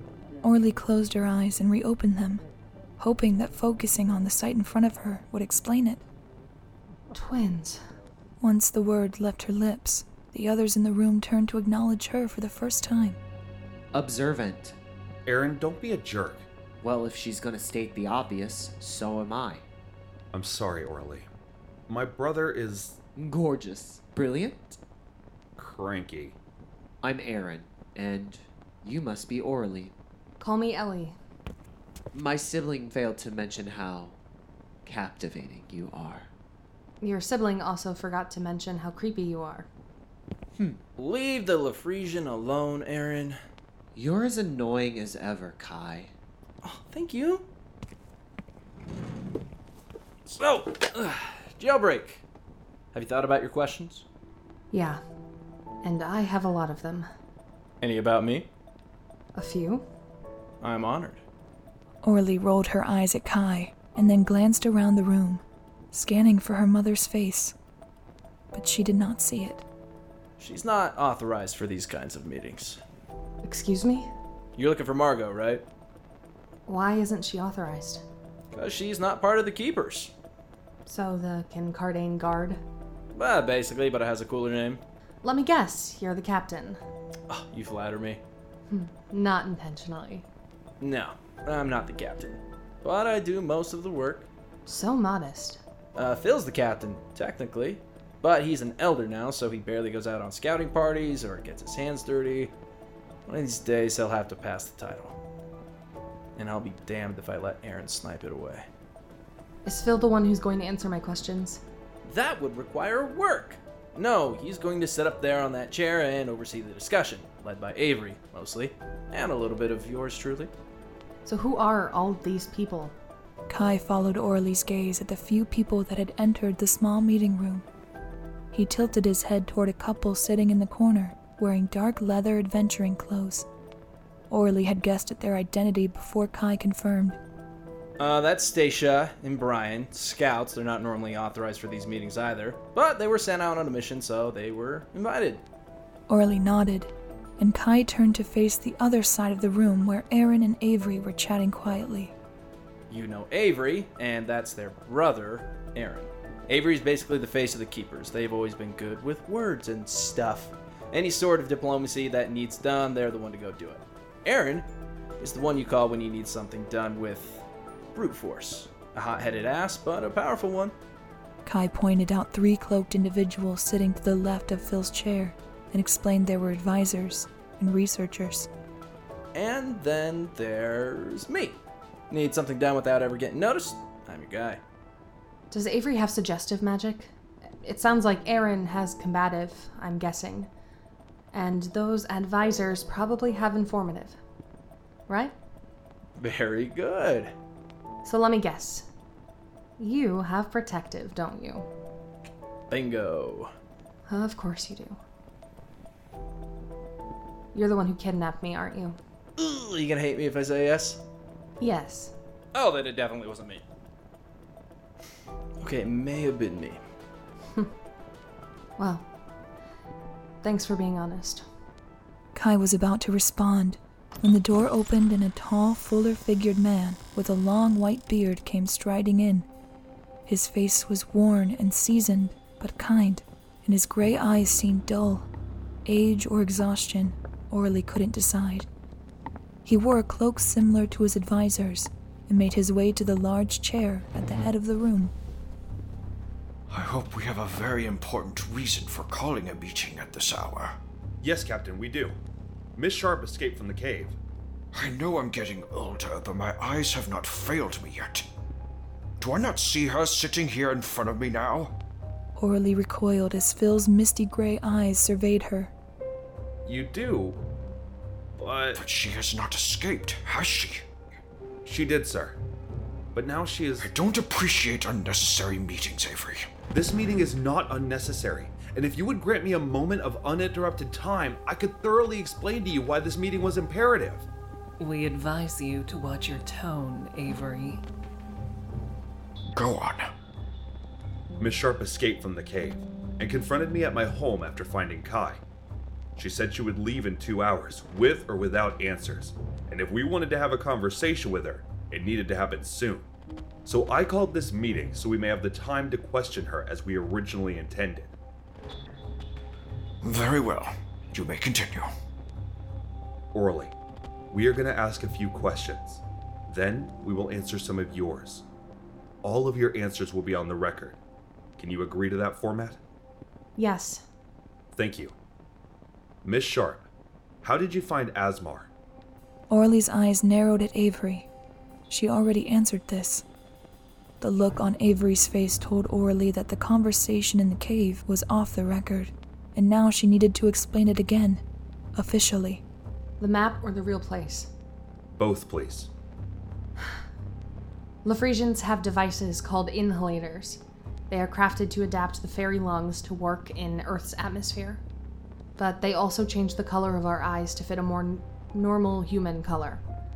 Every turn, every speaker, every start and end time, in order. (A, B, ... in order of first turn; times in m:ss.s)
0:00.4-0:02.4 A
0:03.0-0:06.0 A
0:07.1-0:07.8 B
0:08.4-0:13.2 A
0:13.9-0:14.8 C
0:15.3-0:16.5 D
0:16.8-0:19.6 C
0:20.3-0:21.3 D
0:21.9-0:23.0 D
0:23.2-0:24.8 C
0:25.6-0:26.4 D
0:27.0-0:29.9 C
0:30.4-0:31.2 B
0:32.1-0:34.2 C
0:34.8-0:36.3 C
0:37.0-0:39.7 B
0:41.0-0:43.4 E
0:44.0-0:46.1 C
0:46.6-0:47.5 E
0:50.3-0:52.2 E
0:52.9-0:54.0 E
0:54.7-0:55.0 B
0:55.8-0:57.1 B
0:57.8-0:58.5 E
0:59.4-0:59.9 B
1:00.6-1:01.2 E
1:02.0-1:07.6 A
1:08.5-1:09.6 A
1:10.4-1:12.8 E
1:13.4-1:14.1 B
1:14.6-1:15.6 E
1:16.7-1:18.0 B
1:18.5-1:20.1 E
1:20.9-1:22.6 B
1:23.1-1:24.8 E
1:25.2-1:26.8 B
1:27.3-1:28.2 E
1:28.7-1:30.3 B
1:30.8-1:34.3 E
1:34.7-1:35.6 B
1:36.0-1:42.5 E
1:43.3-1:45.2 E
1:46.4-1:48.7 E
1:49.6-1:51.6 B
1:52.0-2:00.5 E
2:01.3-2:02.9 B
2:03.5-2:07.6 A
2:08.5-2:13.5 A
2:14.3-2:17.2 A
2:18.0-2:25.4 E
2:26.1-2:32.2 A
2:32.9-2:44.7 E
2:45.2-2:50.7 E
2:51.4-2:58.5 A
2:59.4-3:01.6 E
3:02.1-3:04.6 E
3:05.5-3:07.1 B
3:07.6-3:10.5 B
3:11.3-3:14.2 B
3:15.1-3:15.3 B
3:16.2-3:17.3 E
3:18.0-3:18.9 B
3:19.8-3:21.7 B
3:22.7-3:23.5 E
3:24.1-3:25.0 B
3:27.5-3:29.0 B
3:29.4-3:31.0 E
3:31.6-3:32.1 B
3:32.5-3:33.6 E
3:35.6-3:36.8 E
3:38.8-3:39.1 B
3:40.4-3:41.4 B
3:42.3-3:49.5 A
3:50.3-3:55.3 A
3:55.8-3:58.7 A
3:59.6-4:05.1 A
4:06.7-4:10.8 F
4:11.2-4:12.2 D
4:12.8-4:14.2 D
4:14.7-4:18.3 F
4:19.2-4:21.7 F
4:22.4-4:25.7 A
4:26.6-4:27.4 D
4:28.4-4:28.8 D
4:28.8-4:30.8 F
4:31.6-4:32.4 D
4:33.1-4:33.9 D
4:33.8-4:36.5 F
4:36.7-4:44.3 D
4:44.8-4:47.8 G
4:49.5-4:50.1 F
4:51.4-4:55.4 D
4:56.2-5:03.1 D
5:03.6-5:08.1 D
5:10.0-5:11.9 F
5:13.3-5:13.7 D
5:14.3-5:18.4 D
5:19.2-5:21.0 D
5:21.6-5:22.8 D
5:23.6-5:24.0 B
5:24.7-5:25.1 D
5:26.2-5:26.9 D
5:27.4-5:28.7 D
5:29.5-5:31.3 A
5:31.9-5:33.2 A
5:34.2-5:41.4 A
5:42.0-5:42.6 A
5:43.2-5:44.5 B
5:45.1-5:45.9 D
5:48.0-5:54.8 B
5:55.6-5:59.8 B